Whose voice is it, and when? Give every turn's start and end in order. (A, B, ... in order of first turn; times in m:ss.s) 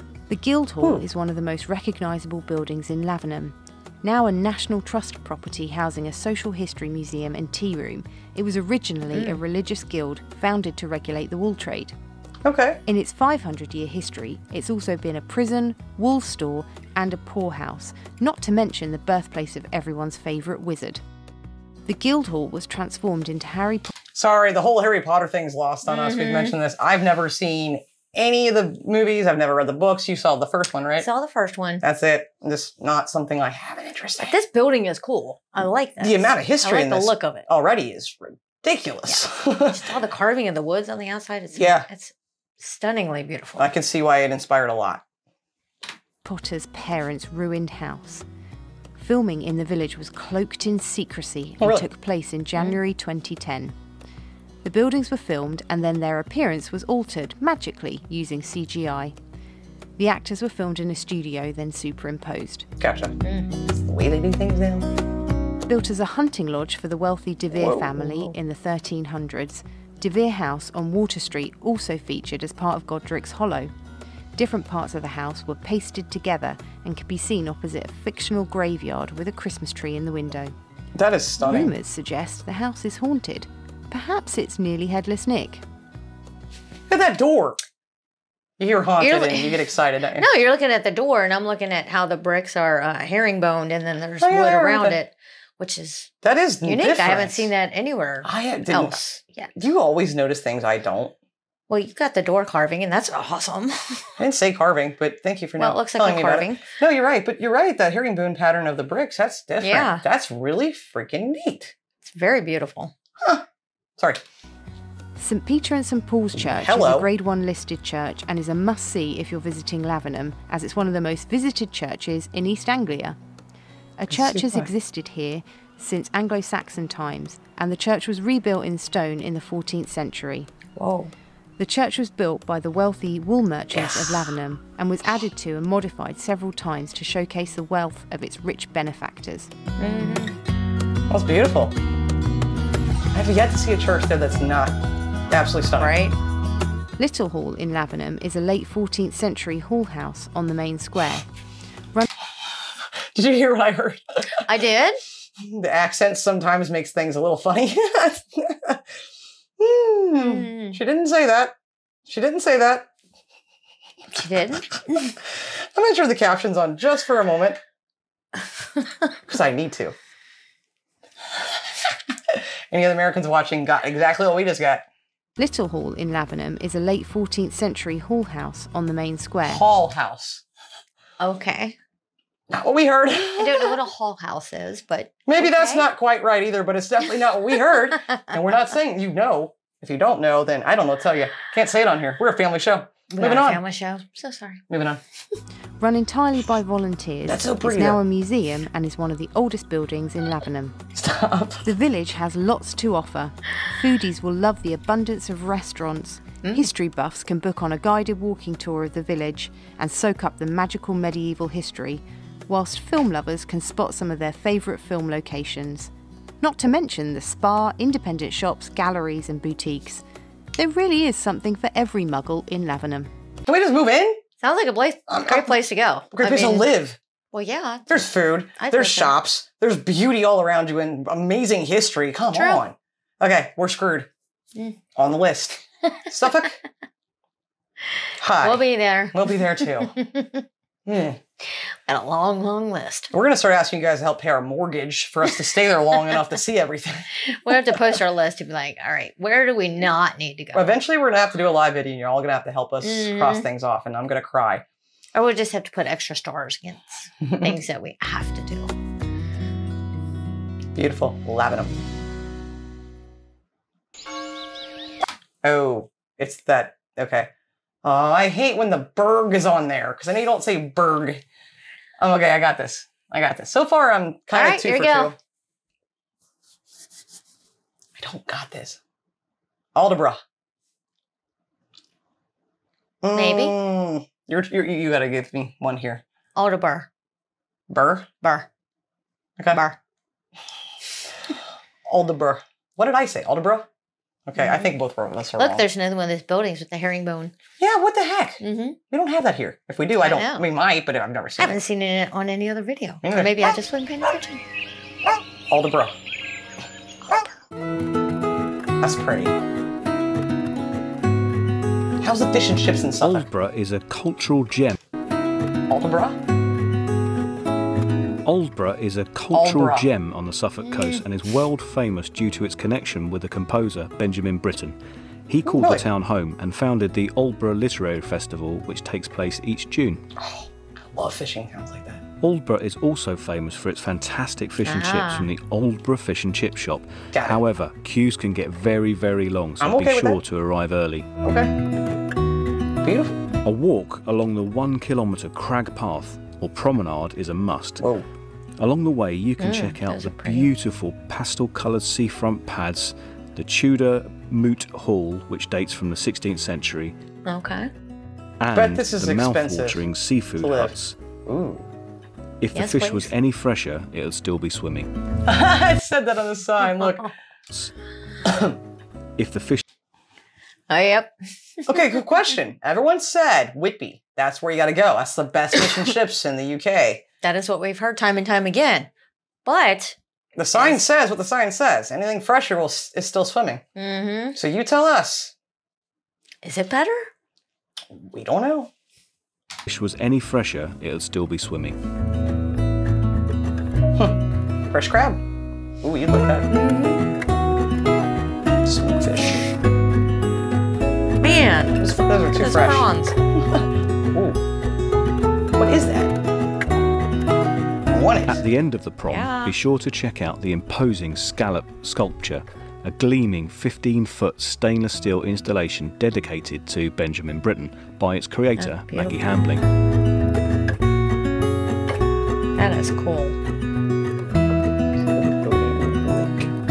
0:00.3-0:11.9 A
0:09.1-0:09.4 B
0:12.4-0:12.8 C
0:12.8-0:21.0 A
0:21.8-0:23.9 A
0:24.1-0:31.1 C
0:25.8-0:26.5 B
0:31.0-0:31.8 B
0:31.8-0:34.3 C
0:34.2-0:37.5 B
0:36.0-0:39.9 C
0:39.7-0:43.7 B
0:41.6-0:41.8 C
0:43.6-0:45.0 C
0:46.2-0:48.2 A
0:48.9-0:53.7 A
0:51.6-0:51.9 C
0:54.6-0:59.1 A
1:00.0-1:02.7 A
1:02.8-1:04.9 C
1:03.2-1:03.5 B
1:05.7-1:13.7 A
1:07.5-1:08.3 C
1:14.3-1:20.5 A
1:20.9-1:21.7 C
1:21.4-1:25.6 A
1:26.9-1:27.6 C
1:28.6-1:30.3 C
1:29.0-1:29.6 B
1:30.2-1:39.5 B
1:34.2-1:35.0 C
1:36.2-1:37.5 C
1:38.2-1:39.0 C
1:39.5-1:41.1 C
1:41.7-1:44.2 B
1:44.2-1:51.7 C
1:45.6-1:46.6 B
1:49.6-1:50.0 B
1:52.0-1:52.9 B
1:55.2-2:03.2 A
1:56.4-1:57.1 C
2:04.0-2:10.5 A
2:04.1-2:04.7 C
2:10.8-2:11.1 B
2:11.6-2:19.5 A
2:13.7-2:14.3 C
2:19.8-2:20.3 B
2:21.1-2:21.7 C
2:23.1-2:24.8 C
2:25.3-2:25.9 C
2:25.8-2:26.1 B
2:27.0-2:31.2 A
2:33.1-2:34.4 C
2:34.4-2:35.0 B
2:35.4-2:38.8 C
2:39.6-2:42.9 C
2:40.2-2:40.8 B
2:44.2-2:45.1 B
2:45.1-2:47.6 C
2:49.2-2:50.0 C
2:51.8-2:54.8 C
2:55.4-2:59.6 A
2:59.5-3:00.4 C
3:01.2-3:01.8 B
3:02.5-3:03.7 C
3:03.4-3:05.9 B
3:05.3-3:13.6 C
3:13.1-3:14.6 B
3:14.7-3:15.0 C
3:15.8-3:20.8 A
3:17.3-3:18.0 C
3:20.9-3:21.6 C
3:21.6-3:40.0 A
3:40.5-3:43.1 A
3:43.4-3:44.2 C
3:44.4-3:46.7 B
3:45.1-3:45.6 C
3:46.1-3:47.0 C
3:47.3-3:49.1 B
3:47.9-3:54.1 C
3:52.3-3:52.6 B
3:54.9-3:56.6 C
3:58.2-3:59.9 C
3:58.4-4:00.4 B
4:00.8-4:01.2 C
4:01.5-4:03.1 B
4:03.1-4:07.6 C
4:07.3-4:10.7 B
4:10.5-4:14.6 C
4:12.8-4:13.5 B
4:15.1-4:18.7 B
4:17.2-4:17.5 C
4:20.7-4:21.8 C
4:25.4-4:27.3 C
4:27.8-4:31.2 C
4:32.0-4:35.2 C
4:34.3-4:35.1 B
4:38.0-4:38.8 C
4:39.7-4:40.2 C
4:43.0-4:46.0 C
4:43.1-4:43.6 B
4:46.3-4:46.9 B
4:47.7-4:48.1 C
4:48.2-4:48.5 B
4:49.5-4:49.8 B
4:51.8-4:53.7 C
4:54.2-4:55.6 C
4:54.4-4:54.7 B
4:55.4-4:57.3 B
4:57.6-5:01.6 C
4:58.4-4:58.8 B
5:00.0-5:00.4 B
5:01.4-5:04.4 B
5:03.0-5:03.5 C
5:05.5-5:06.0 C
5:08.8-5:09.3 C
5:12.0-5:13.3 C
5:13.0-5:14.8 D
5:15.7-5:16.2 C
5:18.2-5:24.8 D
5:19.3-5:19.8 C
5:20.7-5:21.0 B
5:25.3-5:30.0 D
5:25.4-5:25.8 C
5:30.2-5:32.0 C
5:32.2-5:41.1 D
5:34.6-5:35.3 B
5:37.1-5:37.4 C
5:39.6-5:40.2 C
5:41.2-5:41.5 C
5:42.8-5:43.1 C
5:43.4-5:47.9 D
5:48.6-5:56.9 D
5:49.4-5:50.5 B
5:57.2-5:57.7 B
5:58.4-6:01.0 D
5:58.5-5:59.8 C
6:00.4-6:00.7 C
6:01.2-6:01.7 C
6:02.4-6:04.9 D
6:02.5-6:03.1 B
6:05.2-6:07.1 C
6:08.2-6:08.6 C
6:09.2-6:09.6 D
6:10.7-6:11.1 B
6:11.6-6:17.0 C
6:17.2-6:18.9 B
6:19.4-6:20.0 B
6:20.4-6:23.6 C
6:20.5-6:20.8 B
6:23.8-6:24.4 B
6:24.4-6:25.3 C
6:26.4-6:27.1 B
6:27.9-6:28.7 C
6:29.6-6:31.8 D
6:34.7-6:35.2 C
6:35.8-6:36.5 C
6:36.5-6:37.0 B
6:38.6-6:39.5 C
6:41.2-6:43.2 B
6:41.8-6:44.4 C
6:45.5-6:46.2 C
6:47.9-6:48.4 C
6:48.2-6:59.6 D
6:49.1-6:49.6 B
6:58.6-6:59.2 B
7:02.6-7:03.4 B
7:05.0-7:06.5 C